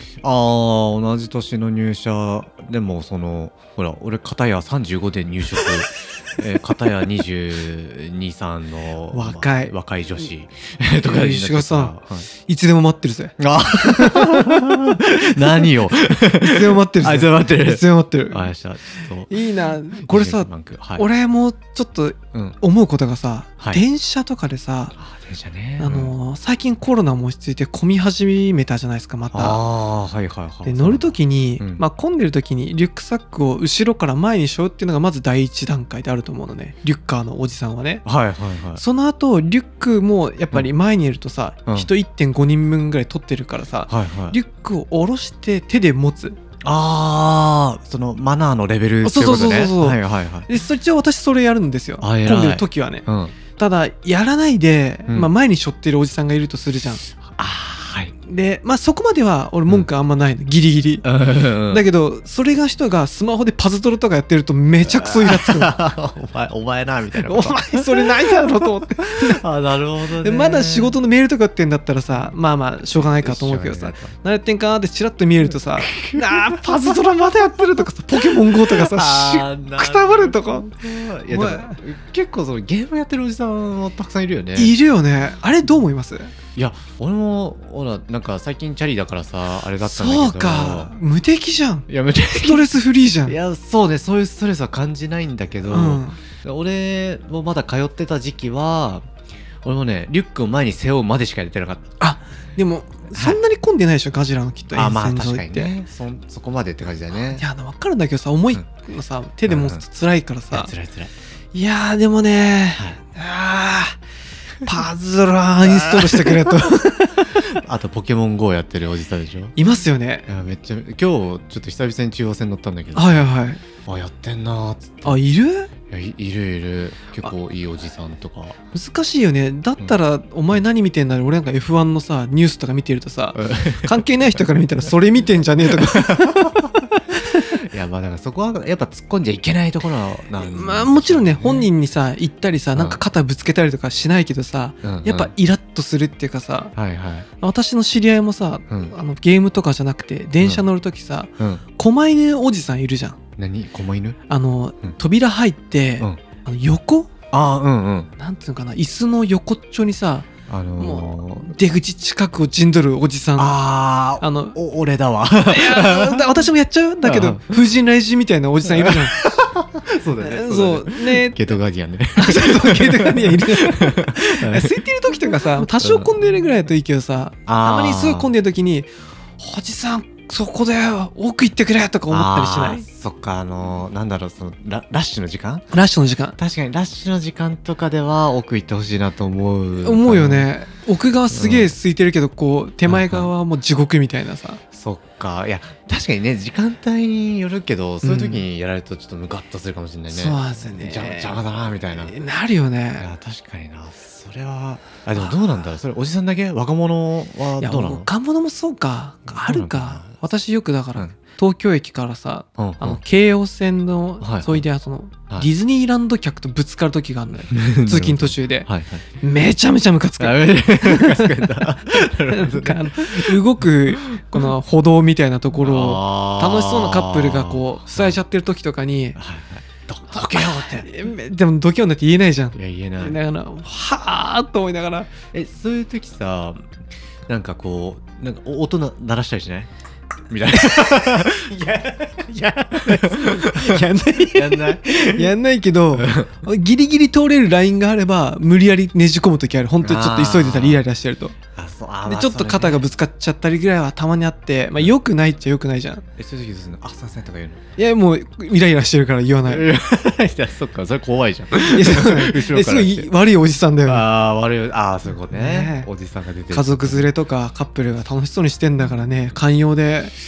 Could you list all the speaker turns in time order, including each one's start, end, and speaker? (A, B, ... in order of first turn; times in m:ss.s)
0:00.2-0:12.3 A
0:09.1-0:09.7 B
0:11.0-0:12.0 B
0:12.5-0:14.8 B
0:13.4-0:19.3 A
0:16.4-0:18.4 B
0:19.3-0:25.0 B
0:20.0-0:21.0 A
0:25.0-0:26.1 A
0:25.8-0:29.6 B
0:29.3-0:31.8 A
0:30.6-0:38.0 B
0:38.0-0:38.8 A
0:38.8-0:46.4 B
0:43.9-0:44.4 A
0:46.6-0:50.5 A
0:49.0-0:53.0 B
0:52.0-0:53.3 A
0:53.6-0:57.0 B
0:57.4-0:58.1 A
0:58.3-1:01.0 B
1:01.0-1:01.8 A
1:01.7-1:05.8 B
1:04.8-1:11.0 A
1:07.2-1:09.4 B
1:10.2-1:20.7 B
1:12.8-1:14.1 A
1:15.8-1:16.7 A
1:18.3-1:24.7 A
1:21.3-1:21.8 B
1:24.6-1:26.3 B
1:26.5-1:30.9 A
1:29.8-1:31.9 B
1:31.9-1:32.7 A
1:32.4-1:33.4 B
1:33.2-1:39.0 A
1:35.7-1:36.2 B
1:39.6-1:41.8 A
1:42.0-1:45.7 B
1:43.1-1:43.4 A
1:44.7-1:47.4 A
1:47.3-1:50.7 B
1:49.4-1:49.8 A
1:50.5-1:51.1 A
1:51.5-1:54.0 B
1:54.6-1:57.4 B
1:55.6-1:56.7 A
1:57.4-1:59.5 A
1:59.6-2:00.3 B
2:00.3-2:03.3 A
2:02.9-2:03.6 B
2:03.8-2:05.2 A
2:05.0-2:05.7 B
2:05.9-2:08.6 A
2:08.7-2:16.5 B
2:13.3-2:14.0 A
2:15.7-2:16.5 A
2:17.5-2:21.7 A
2:20.4-2:26.7 B
2:22.7-2:23.0 A
2:24.8-2:25.3 A
2:26.8-2:27.3 A
2:27.4-2:33.2 B
2:28.7-2:28.9 A
2:33.4-2:34.2 A
2:34.3-2:37.1 B
2:37.3-2:38.1 A
2:38.2-2:40.3 B
2:40.5-2:41.5 A
2:40.8-2:43.6 B
2:43.4-2:46.3 A
2:44.2-2:44.6 B
2:45.5-2:49.1 B
2:47.0-2:47.5 A
2:48.7-2:54.7 A
2:50.2-2:51.4 B
2:52.2-3:02.8 B
2:55.8-2:56.1 A
2:57.4-2:58.3 A
3:02.1-3:05.7 A
3:05.7-3:06.4 B
3:06.4-3:10.5 A
3:09.8-3:14.6 B
3:11.3-3:11.7 A
3:12.8-3:13.3 A
3:14.7-3:22.1 A
3:18.0-3:18.4 B
3:20.1-3:21.4 B
3:22.0-3:23.1 B
3:23.0-3:28.1 A
3:27.6-3:38.7 B
3:29.3-3:30.2 A
3:32.6-3:33.0 A
3:34.2-3:34.6 A
3:37.5-3:39.0 A
3:39.2-3:49.2 B
3:40.2-3:44.5 A
3:45.6-3:48.2 A
3:49.2-3:50.9 A
3:50.1-3:55.1 B
3:52.5-3:53.2 A
3:55.3-3:56.6 A
3:57.3-3:59.7 A
4:00.3-4:01.6 A
4:00.5-4:11.4 B
4:02.8-4:05.3 A
4:05.9-4:06.3 A
4:09.8-4:10.8 A
4:11.5-4:12.8 A
4:12.0-4:16.0 B
4:16.2-4:17.6 A
4:17.8-4:19.7 B
4:19.4-4:23.1 A
4:21.6-4:24.0 B
4:23.8-4:27.1 A
4:25.3-4:25.9 B
4:26.5-4:30.1 B